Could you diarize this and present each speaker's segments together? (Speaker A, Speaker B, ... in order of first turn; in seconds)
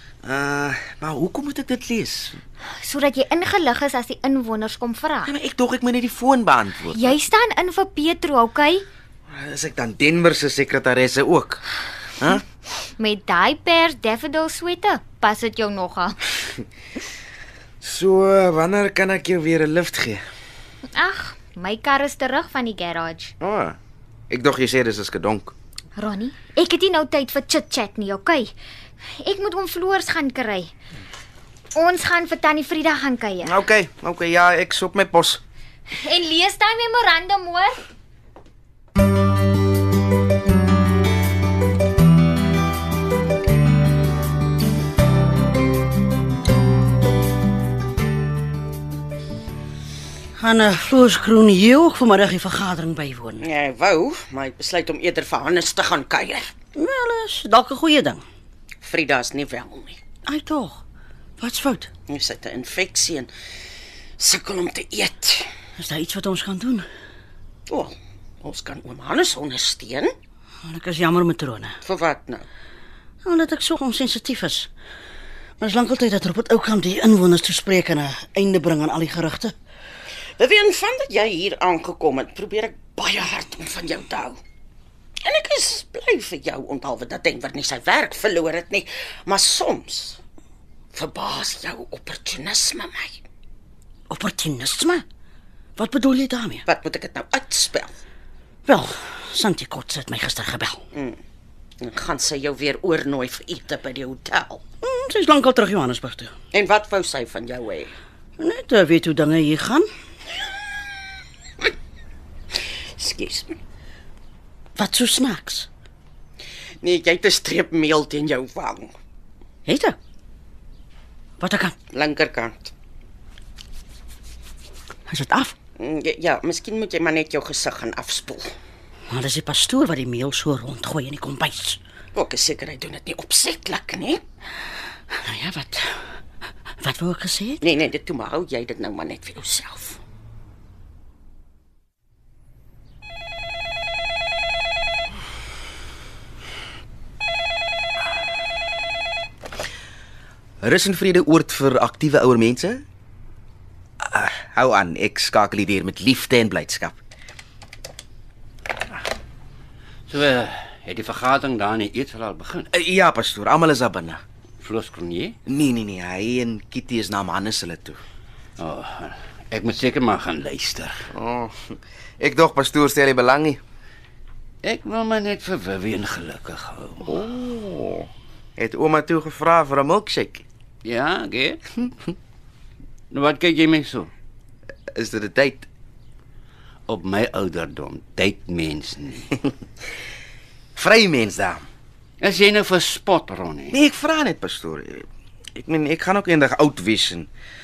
Speaker A: 0.2-2.4, 5.2-7.2, 9.3-11.6, 12.2-12.4, 17.8-20.2, 23.4-23.8, 24.3-25.5, 33.4-35.4, 150.6-152.8, 154.0-157.0, 162.7-164.2, 165.4-168.0, 171.1-173.6, 177.1-180.4, 184.9-185.7, 190.8-191.6, 193.7-195.1, 195.6-197.3
Speaker B: 2.7-5.3, 6.9-8.8, 12.8-16.1, 20.9-23.3, 26.0-28.5, 29.2-30.7, 31.7-33.5, 35.9-37.8
Speaker C: 50.4-53.5, 56.7-58.2, 60.2-60.8, 61.4-61.9, 65.8-66.9, 70.6-71.8, 73.2-74.7, 75.6-79.5, 94.1-95.0, 95.8-96.6, 98.7-100.8, 104.8-106.3, 108.4-109.9, 114.8-115.7, 119.7-120.0, 121.4-121.7, 125.1-125.5, 129.1-131.8, 135.1-135.9, 136.8-137.6
Speaker D: 53.4-56.5, 58.8-60.0, 62.1-63.3, 64.2-65.5, 67.7-70.1, 71.8-72.5, 80.4-84.4, 85.2-90.2, 90.9-93.2, 96.7-97.9, 100.9-101.2, 101.8-104.6, 106.5-107.9, 113.0-113.6, 116.8-118.9, 121.9-122.7, 125.8-128.5, 132.1-134.2, 137.6-140.0
Speaker E: 160.1-162.7, 164.6-165.3, 168.6-171.0, 174.6-177.2, 180.8-181.6, 183.1-184.1, 186.9-189.4, 192.2-193.8